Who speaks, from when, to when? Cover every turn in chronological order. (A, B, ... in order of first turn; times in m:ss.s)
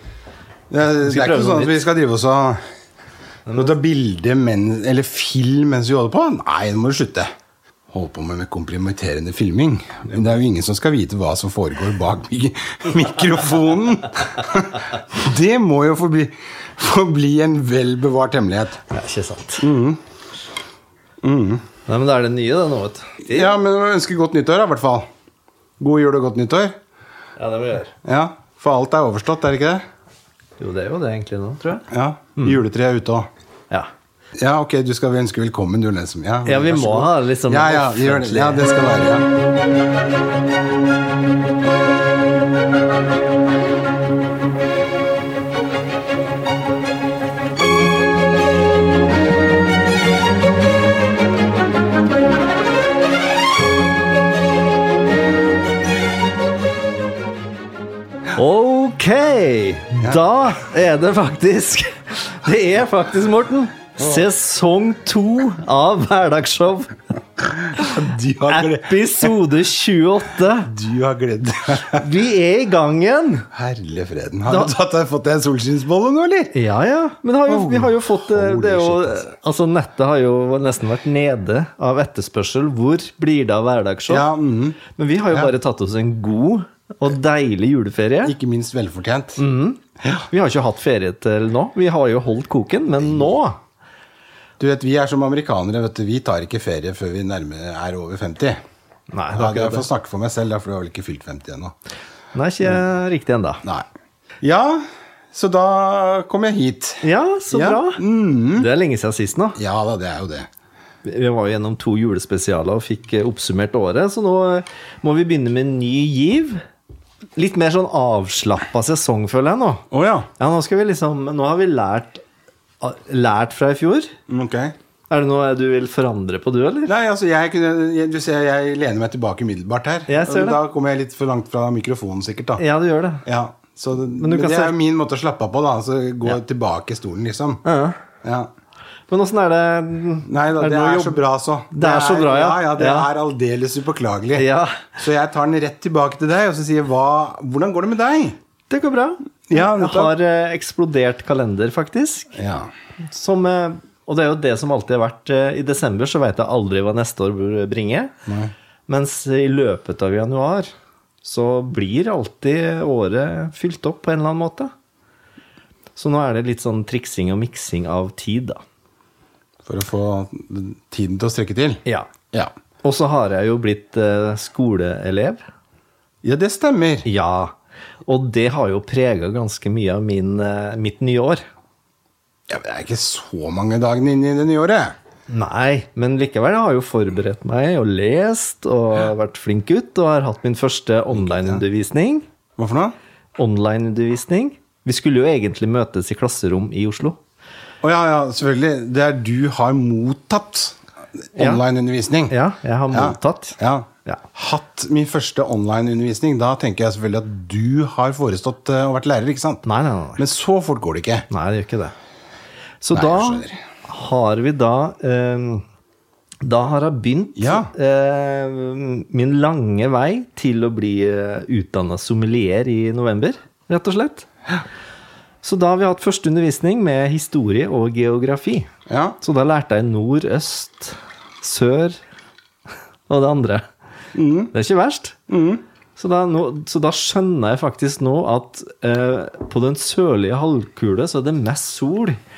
0:00.7-0:02.6 A
0:01.0-0:01.8 B
0:03.5-0:03.7 B
0:03.5-0:07.3 A
0:07.9-0:18.8 A
0:18.9-0:19.7 B
0:19.6-0:20.0 A
0:21.2-0:21.6 A
0:21.9-0:23.5 B
0:23.2-0:25.1 A
0:25.8-0:26.8 A
0:27.4-0:27.9 B
0:28.0-0:29.8 A
0:30.6-0:31.9 B
0:31.9-0:33.3 A
0:34.4-0:39.3 A
0:36.4-0:38.6 B
0:58.3-1:07.0 B
1:04.0-1:04.2 A
1:07.7-1:09.4 A
1:08.5-1:10.7 B
1:10.6-1:12.1 A
1:11.9-1:13.5 B
1:13.5-1:16.6 A
1:16.5-1:24.2 B
1:17.5-1:19.2 A
1:24.1-1:24.8 A
1:24.9-1:28.4 B
1:28.2-1:29.4 A
1:29.4-1:33.6 B
1:30.0-1:30.3 A
1:34.6-1:38.6 A
1:39.1-1:39.9 B
1:39.3-1:41.8 A
1:42.3-1:43.6 B
1:44.4-1:48.7 A
1:47.0-1:48.0 B
1:48.5-1:49.6 B
1:49.6-1:50.5 A
1:51.0-1:56.6 B
1:57.4-1:59.8 B
1:59.9-2:00.3 A
2:00.4-2:02.2 B
2:02.8-2:04.1 B
2:04.3-2:04.8 A
2:05.1-2:06.9 B
2:06.9-2:12.6 A
2:10.1-2:10.6 B
2:12.6-2:13.2 B
2:13.2-2:17.6 A
2:14.2-2:14.7 B
2:17.6-2:18.0 B
2:18.2-2:18.5 A
2:19.1-2:21.2 B
2:20.2-2:28.4 A
2:21.8-2:23.1 B
2:24.4-2:25.0 B
2:28.7-2:32.3 B
2:29.5-2:30.1 A
2:32.4-2:32.7 A
2:33.1-2:38.1 B
2:38.3-2:38.5 A
2:38.9-2:40.7 B
2:41.2-2:44.7 B
2:46.0-2:48.6 B
2:49.6-2:51.8 A
2:52.8-2:55.4 B
2:56.2-2:57.1 A
2:57.1-2:57.6 B
2:58.1-3:01.4 B
3:02.5-3:05.0 A
3:05.3-3:12.3 B
3:11.1-3:11.6 A
3:12.6-3:13.0 A
3:13.4-3:17.2 B
3:17.8-3:20.8 A
3:21.4-3:22.3 A
3:21.4-3:21.6 B
3:22.3-3:24.2 B
3:22.9-3:29.6 A
3:29.7-3:30.2 B
3:30.2-3:31.3 A
3:31.3-3:31.9 B
3:32.8-3:35.6 B
3:32.9-3:33.6 A
3:36.4-3:44.3 B
3:37.4-3:37.7 A
3:45.4-3:48.7 B
3:48.9-3:49.2 A
3:49.2-3:52.0 B
3:53.1-3:53.7 B
3:54.1-3:54.5 A
3:54.5-3:55.2 B
3:55.3-3:55.6 A
3:56.0-4:02.2 B